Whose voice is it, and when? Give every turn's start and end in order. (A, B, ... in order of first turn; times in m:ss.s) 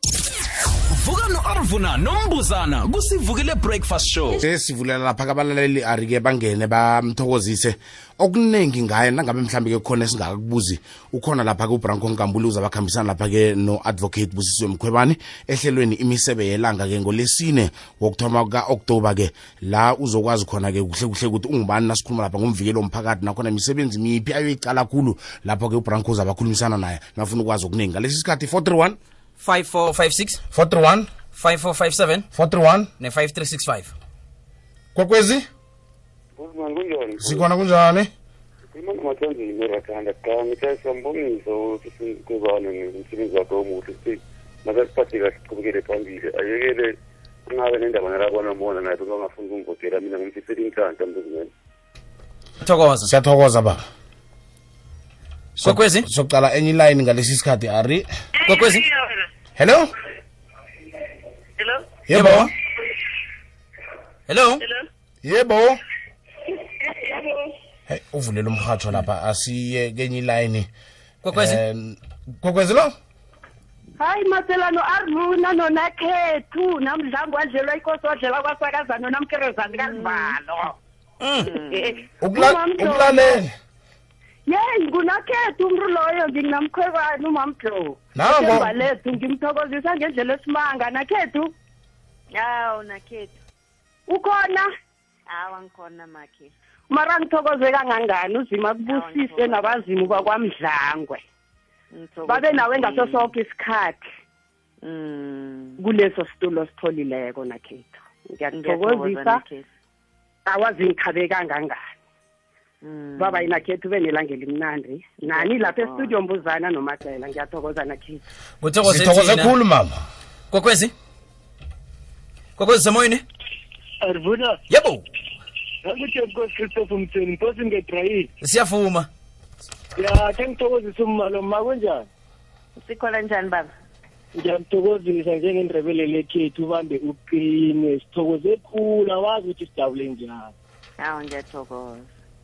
0:00.9-0:04.4 A
0:04.3-0:29.0 B
0:29.4-0:30.4 C
0:30.5-0:31.1 B
0:31.3-0:32.3 C
0:32.3-0:32.9 B
0:33.0-0:33.9 C
0:34.9-0:35.4 B
0:36.4-0:37.5 D
0:37.2-0:38.1 B
0:38.7-0:46.9 D
0:47.5-0:51.5 D
0:52.6-0:53.1 C
0:53.0-0:53.8 B
0:55.6-0:56.1 C
0:55.6-0:58.1 B
0:58.4-0:58.8 C
0:59.6-0:59.9 B
1:02.1-1:02.5 B
1:02.1-1:02.5 C
1:04.3-1:04.6 C
1:05.2-1:05.8 B
1:07.0-1:07.3 E
1:07.9-1:10.7 B
1:11.2-1:11.6 C
1:11.3-1:12.9 B
1:14.0-1:20.8 E
1:19.7-1:20.4 F
1:21.2-1:21.5 C
1:21.4-1:22.0 F
1:21.6-1:23.4 E
1:22.2-1:23.5 B
1:24.4-1:31.5 E
1:28.1-1:28.7 B
1:32.3-1:33.4 F
1:34.1-1:34.7 E
1:35.3-1:36.5 F
1:36.9-1:41.2 E
1:38.8-1:40.3 F
1:41.9-1:43.3 F
1:42.2-1:44.1 E
1:44.8-1:45.8 F
1:45.8-1:49.4 E
1:48.5-1:49.7 F
1:50.4-1:51.9 E
1:52.8-1:53.6 F
1:53.2-1:58.2 E
1:55.3-1:56.2 F
1:58.6-1:59.5 C
1:58.8-2:00.0 B
2:00.5-2:00.9 C
2:02.6-2:03.2 C
2:04.0-2:04.6 G
2:04.7-2:05.0 C
2:05.8-2:08.3 G
2:08.4-2:09.1 C
2:10.0-2:12.1 G
2:12.8-2:13.7 F
2:14.3-2:20.5 G
2:21.0-2:22.1 F